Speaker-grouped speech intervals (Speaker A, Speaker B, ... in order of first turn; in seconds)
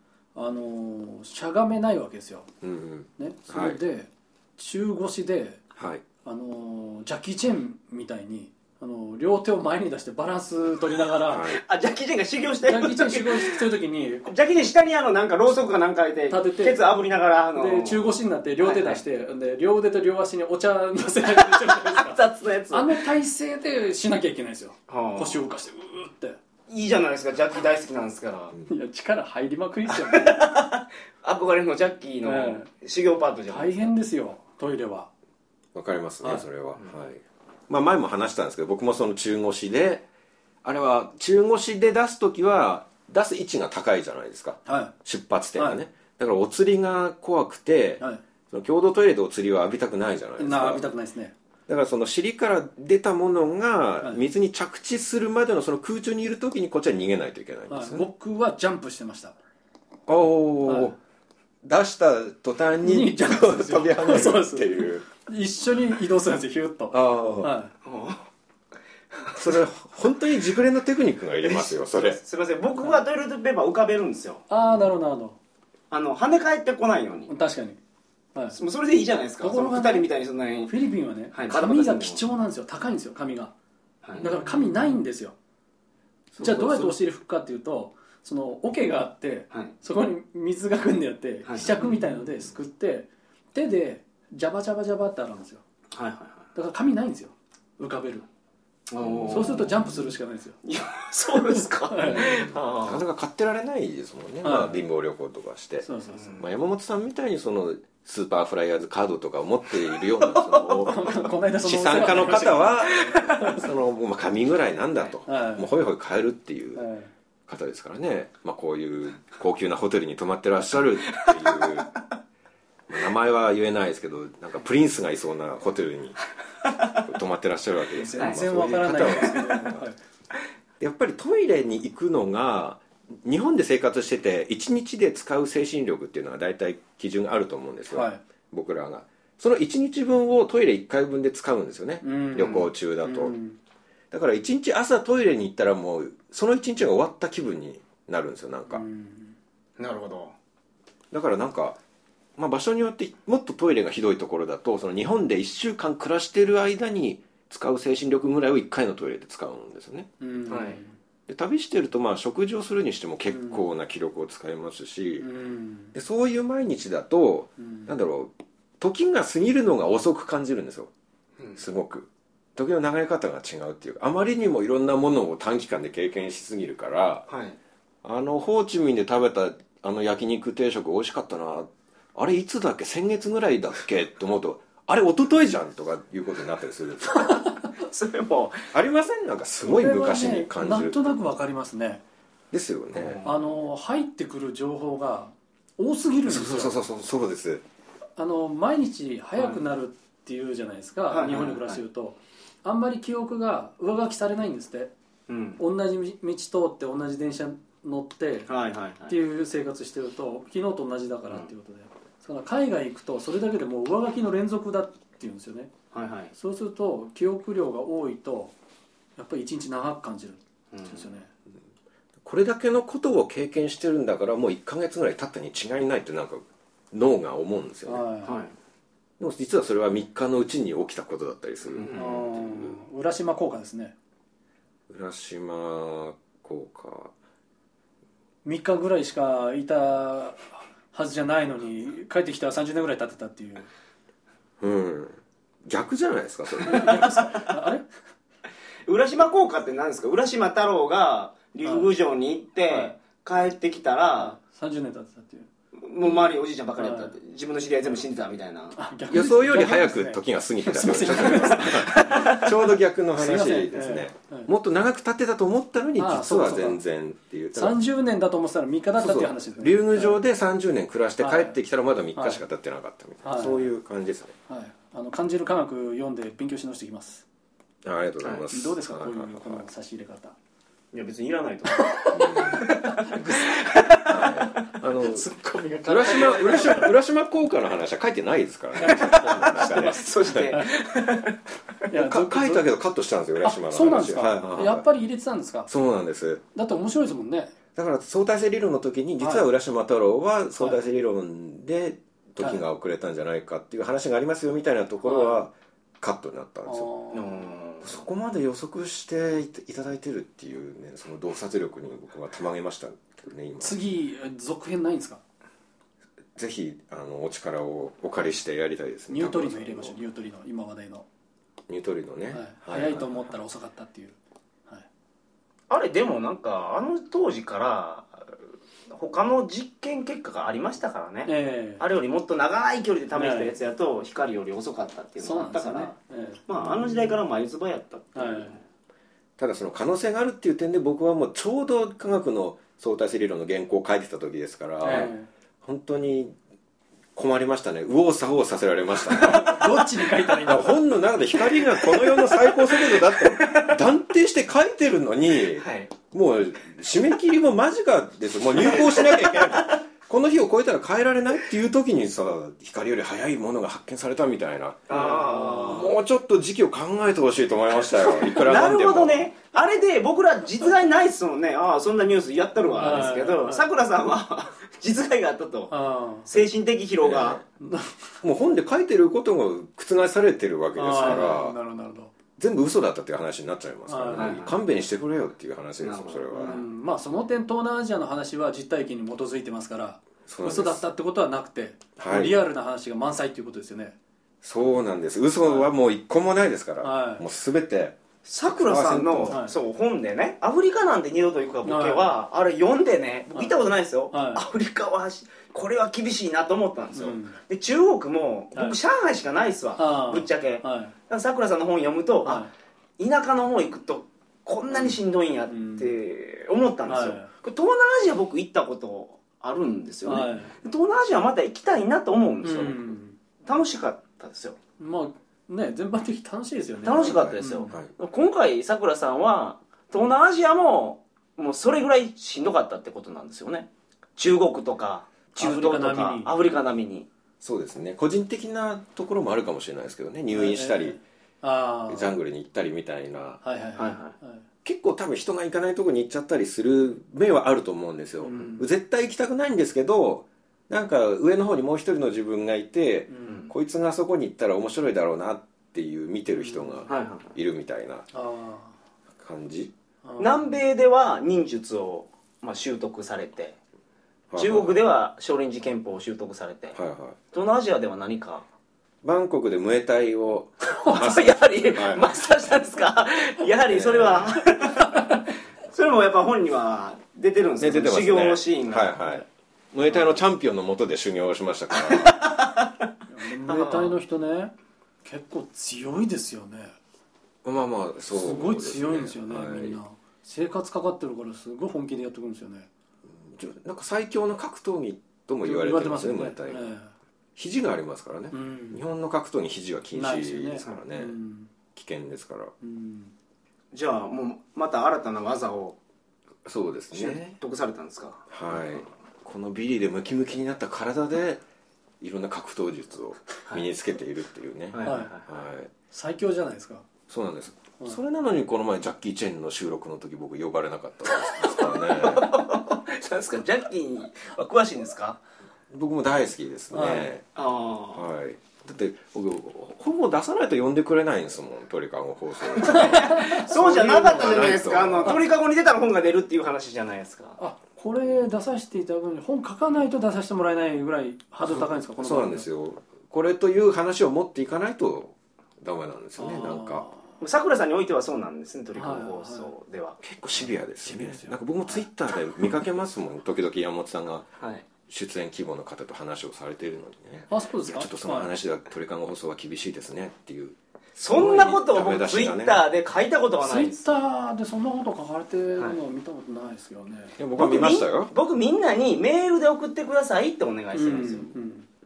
Speaker A: 0.3-2.5, 3.2-5.7, 6.2-11.5, 12.7-14.3, 16.3-16.9, 17.5-26.4, 28.7-30.6, 32.2-32.7, 33.5-35.1, 44.7-44.9, 50.4-51.3, 57.7-59.4, 60.7-60.9, 62.8-67.7, 74.5-75.4, 77.3-77.8, 79.4-80.1, 80.7-83.5, 84.2-85.3, 86.4-95.6, 96.5-98.3, 99.3-100.6, 101.5-102.5, 104.4-104.8, 105.8-106.3, 110.8-113.7, 115.3-115.7, 116.8-117.1, 128.0-129.9, 137.9-138.2, 142.0-143.6, 148.7-149.3, 160.2-160.9, 163.3-163.6, 165.2-165.9, 167.6-167.9, 189.6-192.0, 193.2-196.8, 198.2-204.9, 205.6-208.5, 209.1-215.7, 216.4-218.5, 219.2-221.3, 227.9-228.3, 231.9-233.9, 238.4-243.7, 246.6-247.9, 251.6-251.9, 254.3-255.5, 256.8-257.1, 258.8-262.5, 263.2-264.5, 266.0-266.8, 267.5-270.2, 271.2-271.6, 272.1-272.4, 273.2-273.7, 274.5-277.2, 278.5-280.4, 281.8-283.7, 285.1-286.9, 288.8-290.7, 291.9-292.6, 293.4-295.7, 296.6-297.5, 299.2-299.5, 305.0-305.4, 306.7-307.5, 313.6-315.2, 319.1-321.1, 322.3-324.2, 331.3-331.8, 333.1-333.5, 335.2-337.2, 338.1-338.5, 344.8-345.3, 349.1-350.8, 364.9-365.9, 372.8-373.7, 375.7-376.3, 377.6-378.1, 380.8-382.1, 383.9-384.4, 386.3-394.0, 396.8-397.2, 399.3-399.6, 401.6-402.2, 404.1-404.5, 406.9-407.4, 409.8-410.9, 412.2-412.5, 414.7-415.0, 415.5-415.9, 416.9-417.3, 420.1-420.6, 422.4-423.2, 424.8-427.8, 435.4-436.3, 440.3-442.1, 443.4-444.4, 448.2-448.6, 456.4-456.9, 458.1-458.8, 460.1-460.5, 483.1-486.7, 488.1-492.7, 495.4-496.9, 498.3-498.8, 499.9-501.5, 502.6-503.1, 514.8-515.1, 515.9-516.9, 526.7-527.1, 532.9-533.2, 537.4-542.5, 546.2-547.0, 548.8-549.5, 550.9-551.4, 557.3-558.3, 563.4-567.2, 570.7-571.7
Speaker B: 2.6-3.8, 5.8-6.0, 11.3-11.6, 35.8-40.1, 40.6-50.9, 51.7-58.1, 60.1-61.0, 61.6-65.0, 66.9-67.5, 69.3-72.2, 84.2-84.7, 86.3-87.0, 99.0-100.1, 102.0-116.8, 117.5-121.9, 122.9-126.2, 126.9-129.9, 130.8-143.3, 144.1-148.8, 151.1-151.8, 152.4-160.1, 161.3-165.3, 165.9-170.9, 171.6-177.3, 178.0-187.4, 188.7-191.1, 192.5-193.2, 196.3-197.6, 222.2-228.1, 229.2-232.8, 234.9-237.1, 244.6-247.3, 259.1-267.8, 269.0-274.3, 277.8-279.6, 282.1-282.7, 284.1-285.3, 285.9-290.6, 291.9-294.9, 295.7-296.4, 297.8-306.9, 307.8-313.8, 316.4-320.0, 321.7-323.2, 339.4-345.1, 345.6-346.4, 347.1-349.7, 350.4-365.1, 365.6-369.3, 377.0-377.4, 378.2-381.6, 382.4-386.6, 390.3-390.8, 392.0-392.4, 394.4-399.4, 427.0-427.9, 437.4-441.0, 441.9-443.4, 444.6-458.1, 459.2-459.7, 464.3-464.8, 466.8-467.2, 469.0-472.1, 473.7-474.3, 477.6-482.2, 487.4-489.8, 493.1-496.7, 497.4-501.2, 501.7-502.5, 506.4-507.4, 508.3-511.4, 512.0-515.7, 517.1-522.3, 525.7-527.2, 528.0-535.2, 541.4-546.9, 550.0-554.3, 554.9-562.6, 567.2-568.1
Speaker C: 11.5-13.6, 14.3-18.0, 18.6-19.0, 21.4-23.1, 24.9-25.4, 26.7-28.6, 29.9-33.9, 67.8-68.2, 71.4-74.4, 75.9-77.3, 78.5-80.7, 81.3-82.2, 91.5-91.7, 95.9-96.4, 98.9-99.7, 100.7-103.0, 106.1-106.4, 110.3-111.1, 113.1-113.4, 121.2-121.6, 142.4-142.6, 149.8-150.3, 160.5-160.8, 177.3-177.6, 187.8-188.7, 192.9-193.5, 201.1-201.8, 205.3-205.6, 208.5-209.2, 215.9-216.3, 220.7-221.1, 228.2-228.5, 231.7-232.1, 248.9-254.4, 255.8-258.8, 261.6-262.5, 280.9-284.7, 288.9-291.4, 307.1-308.0, 325.7-328.3, 328.9-335.9, 336.5-338.6, 351.8-353.8, 355.6-355.9, 358.6-359.4, 364.9-365.9, 368.1-375.8, 376.3-377.4, 384.1-384.6, 385.8-386.6, 398.2-412.4, 413.0-424.6, 426.8-437.1, 443.8-444.1, 453.2-453.5, 456.9-457.3, 460.2-463.6, 464.4-466.8, 467.3-468.4, 470.8-479.0, 481.9-482.7, 483.4-484.0, 503.7-505.8, 506.9-508.9, 514.7-515.3, 522.0-525.2, 527.4-528.0, 532.5-537.4, 547.2-550.0, 554.4-554.6, 561.0-564.0, 567.4-571.3